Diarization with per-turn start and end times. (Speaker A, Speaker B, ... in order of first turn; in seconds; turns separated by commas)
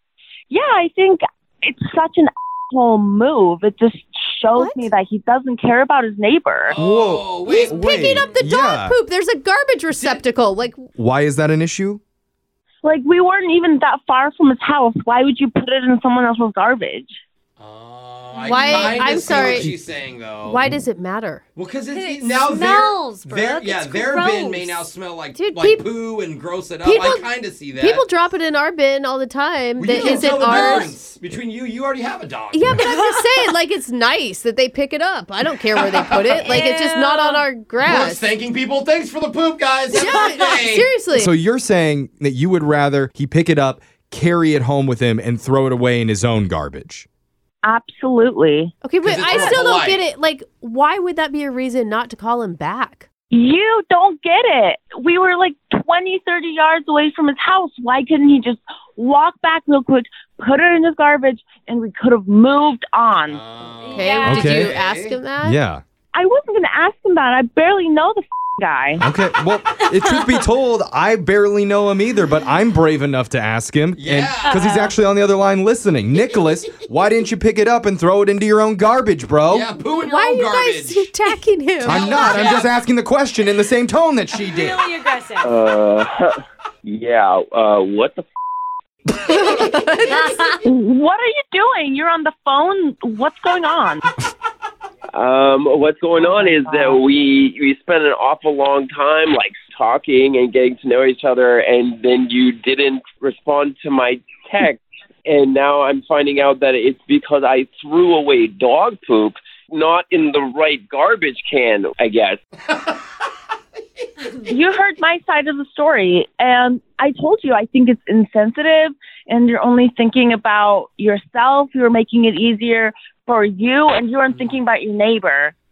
Speaker A: 0.5-6.8, Speaker B: 4.5-4.9, Speaker C: 6.7-8.4, Speaker D: 6.8-8.9, Speaker B: 7.4-10.9, Speaker C: 9.9-10.2, Speaker D: 10.9-12.0, Speaker A: 12.8-17.2, Speaker C: 17.6-20.8, Speaker E: 18.4-19.1, Speaker B: 18.4-19.7, Speaker D: 19.2-19.7, Speaker B: 20.4-21.4, Speaker C: 21.6-28.0, Speaker E: 21.9-24.9, Speaker B: 25.3-25.9, Speaker B: 26.8-31.0, Speaker C: 29.8-32.8, Speaker E: 30.6-30.8, Speaker B: 32.5-38.2, Speaker E: 32.8-33.5, Speaker C: 35.7-36.5, Speaker E: 36.3-37.5, Speaker C: 37.8-40.9, Speaker B: 39.9-41.3, Speaker D: 41.1-47.1, Speaker A: 47.6-48.7, Speaker B: 48.8-53.1, Speaker C: 49.0-50.0, Speaker A: 53.3-63.4, Speaker C: 63.2-65.2, Speaker E: 63.8-64.6, Speaker B: 63.9-65.6, Speaker D: 64.2-64.7, Speaker D: 65.4-65.8, Speaker A: 66.1-69.0, Speaker D: 69.0-79.7, Speaker E: 69.8-70.4, Speaker C: 74.0-74.6, Speaker E: 74.4-75.0, Speaker C: 79.5-81.1, Speaker B: 80.0-82.3, Speaker C: 81.8-82.7, Speaker D: 81.8-84.8, Speaker E: 84.3-85.5, Speaker F: 85.4-88.2, Speaker B: 89.3-90.4, Speaker E: 90.2-90.5, Speaker A: 90.6-94.1, Speaker F: 95.1-112.4, Speaker A: 96.2-97.0, Speaker A: 114.4-125.5, Speaker C: 124.3-124.6